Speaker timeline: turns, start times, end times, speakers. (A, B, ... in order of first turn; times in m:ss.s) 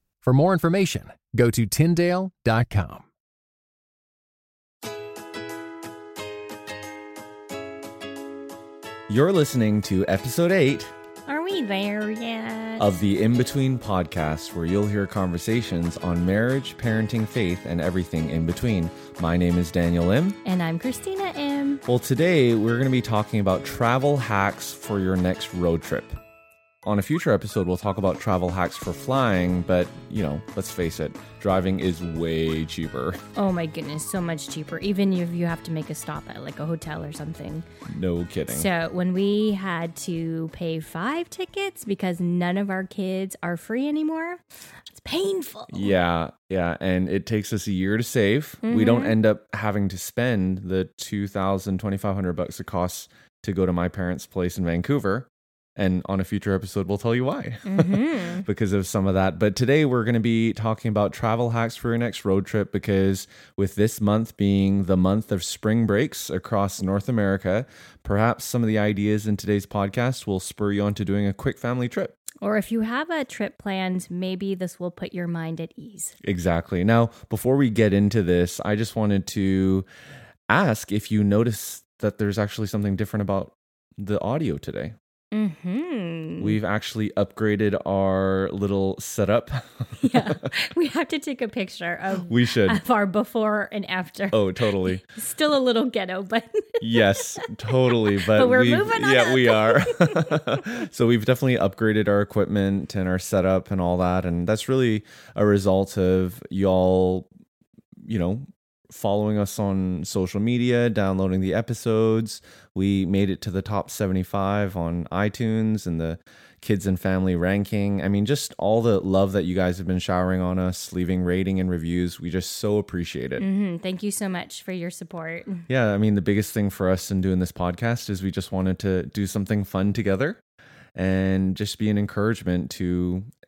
0:00.2-0:03.1 A
0:09.1-0:10.9 B
0:11.3-0:12.9 C
0:12.8-0:20.4 B
0:20.4-0:21.8 C
0:21.9-0:26.2 B
0:26.8-0:33.2 B
0:33.4-0:37.7 C
0:37.9-0:38.7 B
0:38.5-0:45.9 C
0:45.7-1:12.2 B
0:48.6-0:49.2 C
0:57.7-0:58.5 C
1:12.4-1:16.2 C
1:16.2-1:19.9 B
1:20.5-1:25.0 B
1:25.3-1:26.6 C
1:26.4-1:30.4 B
1:30.0-1:36.9 C
1:32.3-1:32.8 B
1:34.3-1:35.0 B
1:36.8-1:47.3 B
1:37.5-1:40.4 C
1:48.0-2:03.4 B
2:03.4-2:05.7 C
2:05.7-2:10.4 B
2:11.0-2:13.3 B